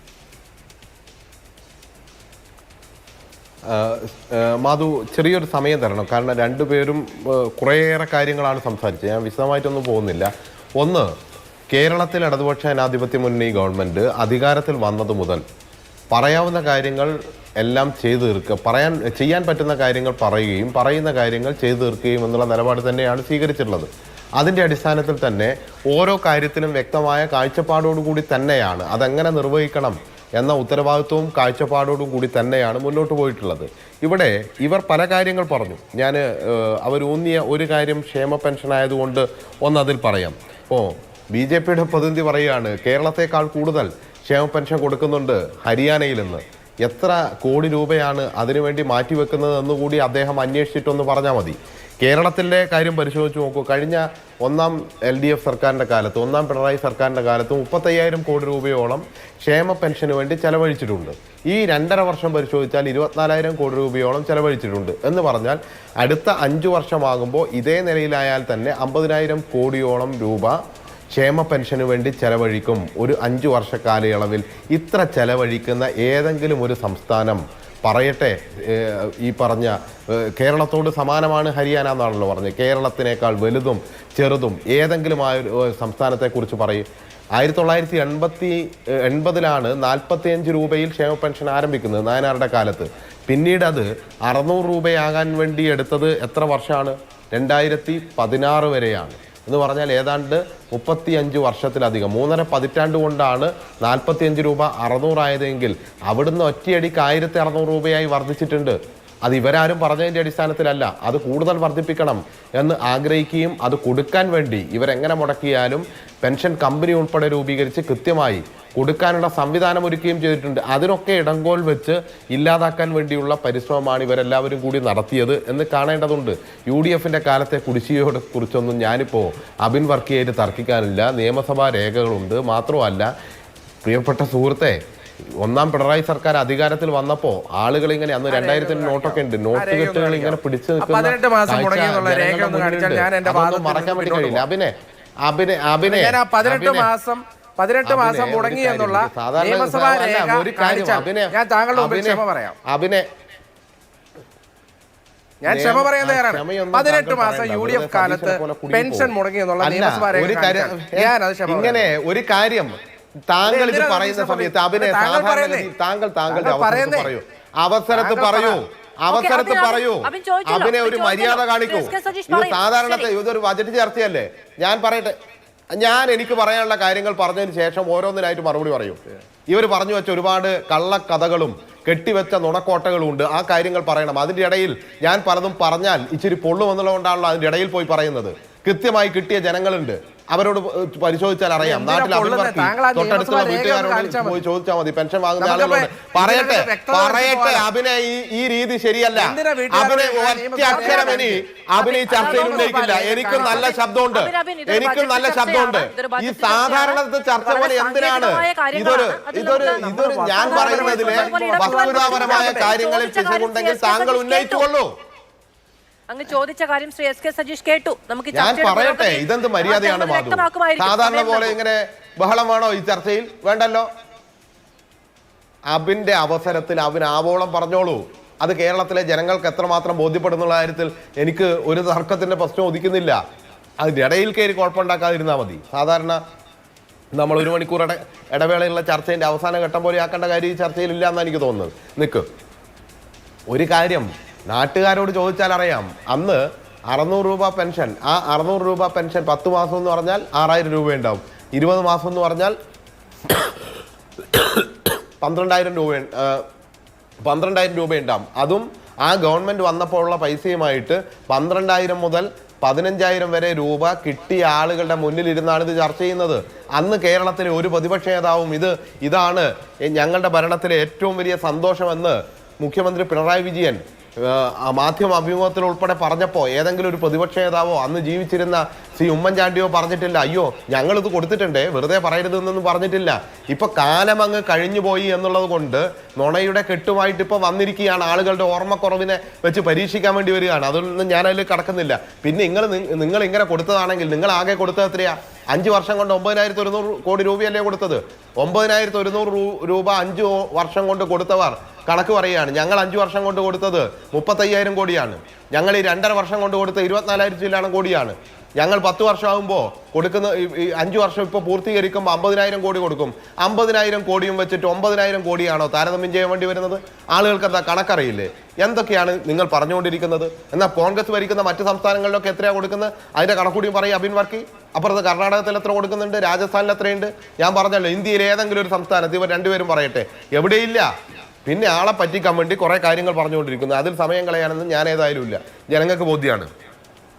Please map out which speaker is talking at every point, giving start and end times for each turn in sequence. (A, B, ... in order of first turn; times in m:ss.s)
0:03.7-0:11.1 A
0:11.7-0:15.4 A
0:16.1-1:10.6 A
1:11.1-2:13.1 A
2:13.8-2:14.8 A
2:15.4-2:24.7 A
2:18.3-2:24.4 B
2:25.2-2:26.9 A
2:25.8-2:32.6 B
2:27.8-2:33.1 A
2:35.4-2:41.9 B
2:35.4-2:42.8 A
2:43.3-2:55.2 A
2:43.4-2:45.7 B
2:46.3-2:47.1 B
2:47.9-2:48.6 B
2:49.1-2:53.1 C
2:55.7-3:34.9 A
3:11.6-3:14.4 B
3:15.4-3:17.6 B
3:19.1-3:21.4 B
3:20.7-3:21.2 C
3:21.8-3:34.6 C
3:22.0-3:23.7 B
3:29.5-3:32.7 B
3:36.1-3:41.5 C
3:38.3-3:43.9 A
3:45.7-3:53.2 A
3:53.8-3:56.2 A
3:57.2-4:02.2 A
4:03.5-4:12.5 A
4:14.3-4:16.4 A
4:17.2-5:30.9 A
5:31.4-5:36.5 A